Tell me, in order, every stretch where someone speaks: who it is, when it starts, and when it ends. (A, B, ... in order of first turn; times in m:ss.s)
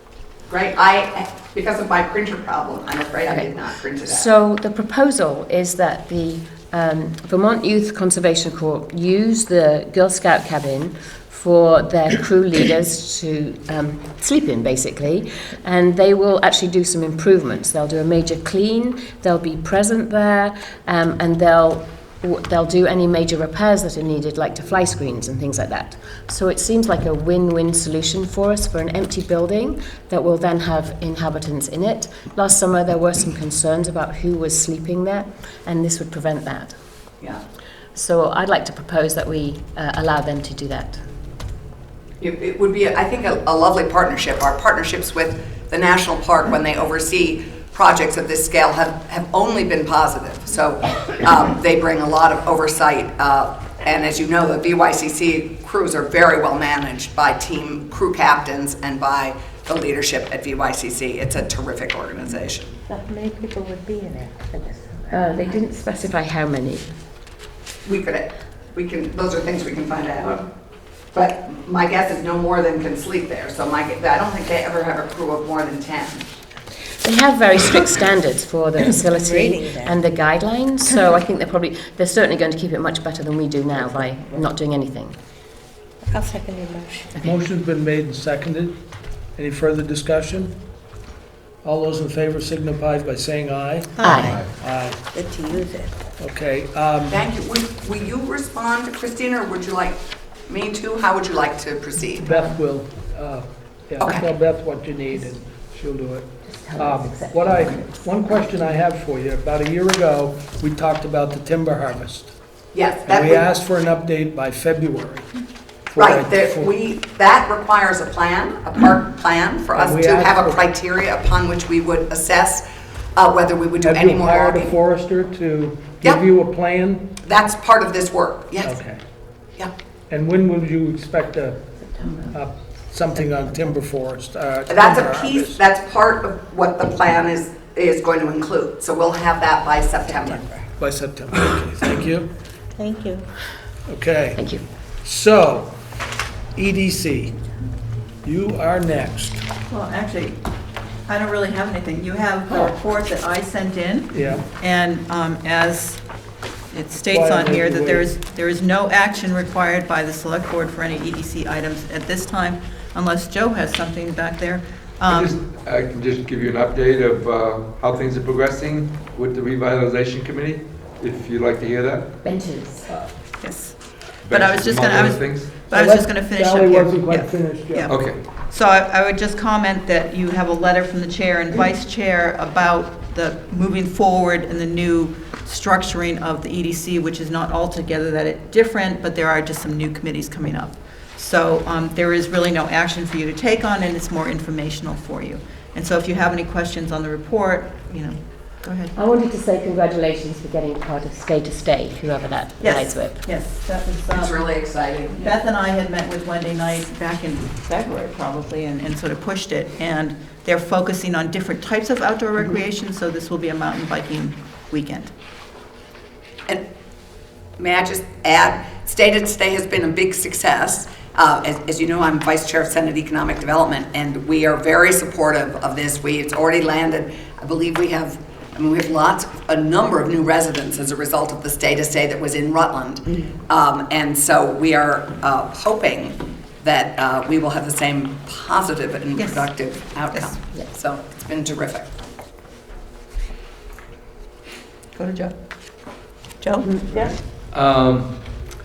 0:00.5-0:04.3 A
0:04.1-0:36.8 B
0:38.0-0:41.0 B
0:42.2-1:02.7 A
1:02.9-1:05.8 C
1:05.1-1:06.9 B
1:07.8-1:10.5 A
1:11.1-1:16.3 A
1:17.0-1:25.2 B
1:18.8-1:20.0 C
1:26.0-1:27.2 C
1:27.2-1:30.6 D
1:31.6-1:35.0 D
1:34.0-1:34.4 C
1:34.0-1:34.4 B
1:34.2-1:34.5 E
1:35.1-1:36.0 C
1:36.2-1:37.2 D
1:37.1-1:42.3 A
1:42.2-1:42.6 B
1:42.2-1:52.4 D
1:46.4-1:48.1 B
1:52.7-1:53.4 A
1:53.1-1:55.3 D
1:55.9-1:56.7 D
1:56.0-2:02.6 A
1:59.8-2:00.6 D
2:03.2-2:04.8 A
2:03.8-2:07.1 D
2:07.2-2:08.8 A
2:08.6-2:09.0 D
2:10.1-2:11.7 D
2:12.0-2:12.3 B
2:12.3-2:15.6 D
2:14.7-2:20.5 A
2:20.0-2:20.7 C
2:20.8-2:22.3 D
2:22.8-2:23.3 C
2:23.9-2:24.4 D
2:24.4-2:24.6 B
2:25.0-2:25.8 D
2:26.6-2:27.3 D
2:28.2-2:29.4 D
2:29.7-2:30.4 F
2:31.1-2:36.0 F
2:34.1-2:34.4 D
2:36.7-2:45.4 F
2:37.1-2:38.1 D
2:45.1-2:52.1 E
2:52.2-2:52.9 B
2:53.4-3:18.9 F
2:54.2-2:55.6 E
2:55.7-2:57.9 D
2:57.9-2:58.2 E
3:19.0-3:23.2 B
3:22.6-3:35.1 F
3:24.1-3:25.3 A
3:37.6-4:01.9 A
3:59.2-3:59.5 F
4:05.0-4:06.7 F
4:07.5-4:08.3 E